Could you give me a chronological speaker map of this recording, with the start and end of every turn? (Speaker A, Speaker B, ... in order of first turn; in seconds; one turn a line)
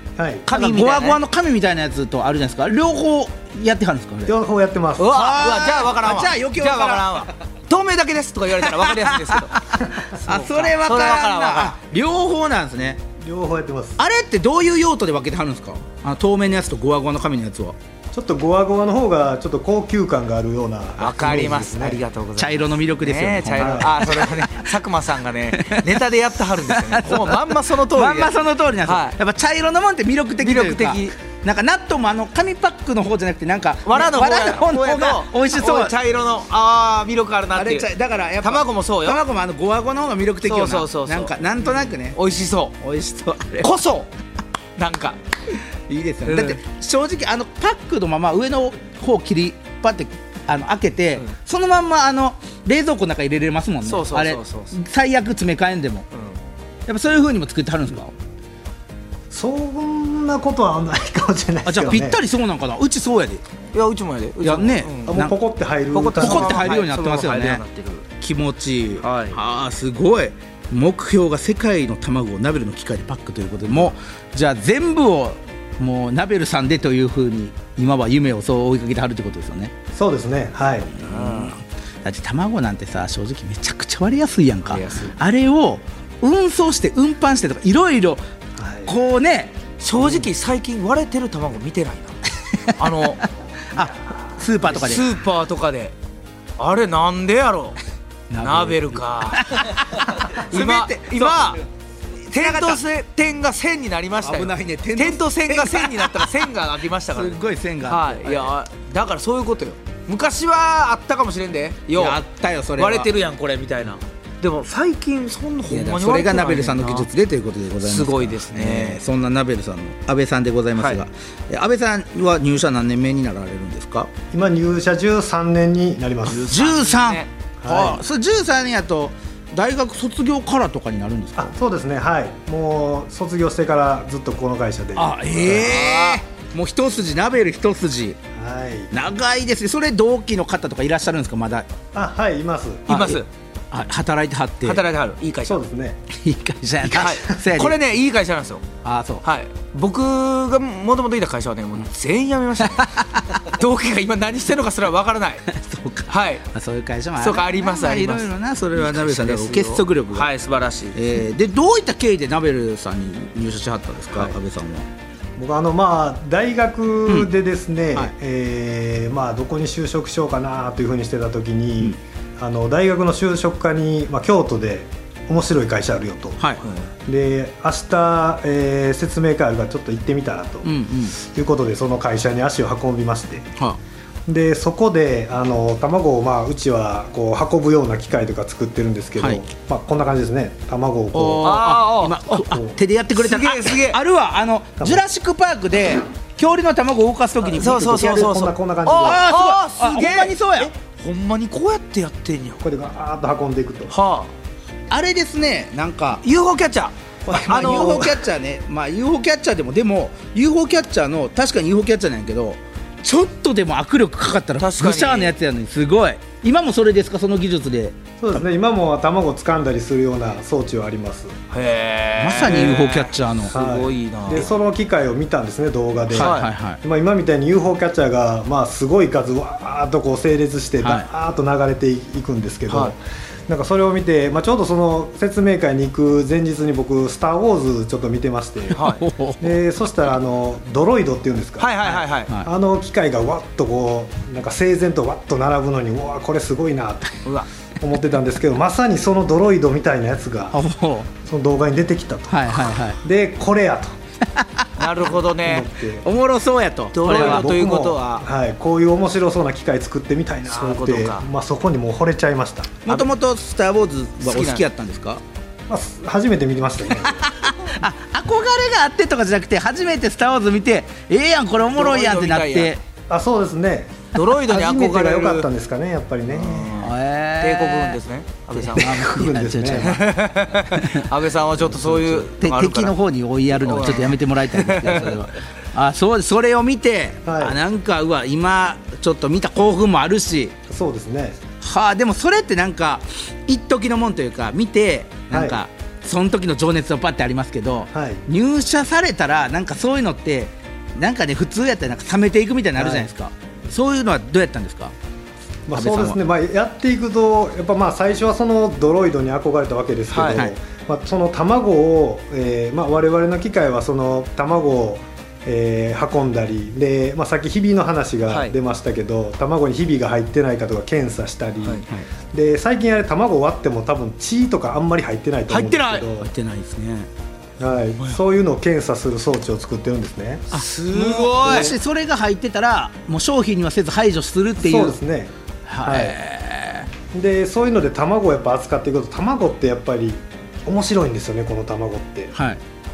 Speaker A: 0.2-0.5
Speaker B: 0.5-1.2
Speaker C: 0.5-4.4
Speaker A: 4.3-5.2
Speaker B: 5.0-9.6
Speaker C: 5.0-7.3
Speaker C: 8.6-13.0
Speaker B: 10.1-11.8
Speaker A: 13.2-14.0
Speaker C: 14.0-17.8
Speaker A: 18.1-22.0
Speaker B: 21.0-29.2
Speaker C: 22.4-24.7
Speaker A: 23.6-24.3
Speaker C: 25.5-36.0
Speaker B: 30.4-31.2
Speaker B: 33.9-37.9
Speaker C: 37.5-42.2
Speaker B: 38.4-39.2
Speaker B: 40.4-42.8
Speaker C: 42.8-43.7
Speaker B: 43.6-44.1
Speaker B: 44.8-45.2
Speaker C: 45.9-56.0
Speaker B: 46.2-46.6
Speaker B: 53.9-54.8
Speaker B: 56.1-56.4
Speaker C: 56.9-58.1
Speaker A: 59.3-62.2
Speaker C: 61.6-63.4
Speaker B: 63.7-65.2
Speaker C: 64.4-65.4
Speaker A: 65.1-66.8
Speaker B: 65.9-68.1
Speaker C: 66.2-67.6
Speaker C: 68.2-79.7
Speaker B: 69.0-69.4
Speaker A: 79.9-80.9
Speaker C: 80.9-88.2
Speaker B: 81.0-81.5
Speaker B: 84.7-85.2
Speaker A: 88.6-88.9
Speaker C: 88.8-89.6
Speaker B: 89.8-92.2
Speaker B: 92.7-93.2
Speaker C: 93.7-95.1
Speaker B: 94.7-95.9
Speaker B: 96.6-97.8
Speaker C: 98.3-101.6
Speaker B: 98.4-101.6
Speaker C: 102.3-102.8
Speaker B: 102.3-112.2
Speaker C: 104.2-106.5
Speaker C: 107.1-108.5
Speaker C: 111.9-113.1
Speaker B: 112.8-117.1
Speaker C: 115.7-124.1
Speaker B: 117.8-119.0
Speaker B: 120.8-121.0
Speaker A: 124.3-126.5
Speaker B: 126.3-127.3
Speaker C: 126.3-131.5
Speaker A: 127.6-128.0
Speaker A: 131.4-135.7
Speaker C: 134.9-138.2
Speaker B: 135.4-136.2
Speaker A: 138.4-139.0
Speaker C: 138.9-141.7
Speaker A: 141.9-142.9
Speaker B: 142.9-143.3
Speaker C: 142.9-144.8
Speaker B: 144.7-145.6
Speaker A: 145.4-146.0
Speaker C: 146.1-147.8
Speaker B: 146.9-148.7
Speaker A: 147.0-147.3
Speaker C: 148.8-149.2
Speaker B: 149.2-155.5
Speaker C: 152.7-153.2
Speaker C: 155.5-160.3
Speaker B: 156.1-156.4
Speaker B: 157.2-161.0
Speaker C: 160.9-164.9
Speaker A: 165.4-176.4
Speaker C: 176.4-176.7
Speaker A: 177.1-183.5
Speaker C: 180.6-181.1
Speaker A: 184.3-191.5
Speaker C: 189.2-189.4
Speaker C: 191.1-200.7
Speaker B: 191.4-192.4
Speaker A: 192.5-192.8
Speaker B: 193.2-194.0
Speaker B: 197.6-202.6
Speaker A: 198.1-199.2
Speaker A: 202.6-203.9
Speaker B: 203.9-204.3
Speaker C: 204.9-206.2
Speaker B: 206.2-208.2
Speaker A: 207.3-208.1
Speaker C: 207.3-218.4
Speaker B: 214.6-215.3
Speaker A: 218.2-221.4
Speaker B: 221.5-224.5
Speaker C: 222.2-223.5
Speaker A: 223.5-238.8
Speaker C: 226.1-226.8
Speaker B: 226.1-226.5
Speaker C: 230.8-231.1
Speaker B: 232.7-232.9
Speaker C: 238.7-239.6
Speaker B: 238.8-239.0
Speaker A: 239.4-247.3
Speaker B: 241.6-242.3
Speaker A: 247.8-250.6
Speaker C: 250.5-251.1
Speaker A: 251.2-253.9
Speaker C: 252.3-253.0
Speaker C: 254.2-254.8
Speaker B: 254.8-255.7
Speaker A: 255.4-256.1
Speaker C: 256.0-257.5
Speaker B: 256.9-258.3
Speaker A: 257.1-263.0
Speaker B: 260.5-261.3
Speaker C: 262.9-265.2
Speaker B: 264.2-264.6
Speaker A: 265.7-267.4
Speaker C: 267.0-272.8
Speaker B: 271.7-272.8
Speaker A: 273.1-276.9
Speaker B: 274.1-275.5
Speaker B: 276.3-279.1
Speaker C: 276.8-278.0
Speaker C: 278.6-280.1
Speaker A: 278.8-280.0
Speaker B: 279.7-282.9
Speaker C: 280.8-281.1
Speaker C: 281.6-290.6
Speaker B: 283.6-285.2
Speaker A: 287.3-287.6
Speaker A: 290.7-291.4
Speaker C: 291.6-304.9
Speaker A: 295.3-295.6
Speaker A: 297.9-298.2
Speaker A: 302.8-303.1
Speaker A: 305.7-326.3
Speaker C: 305.7-306.2
Speaker B: 310.1-310.5
Speaker C: 310.2-310.5
Speaker B: 318.3-318.6
Speaker B: 325.5-326.1
Speaker C: 326.1-327.1
Speaker A: 327.6-331.7
Speaker C: 330.5-335.0
Speaker B: 330.5-331.7
Speaker A: 334.6-336.2
Speaker C: 335.7-336.9
Speaker A: 337.1-342.4
Speaker C: 342.3-342.6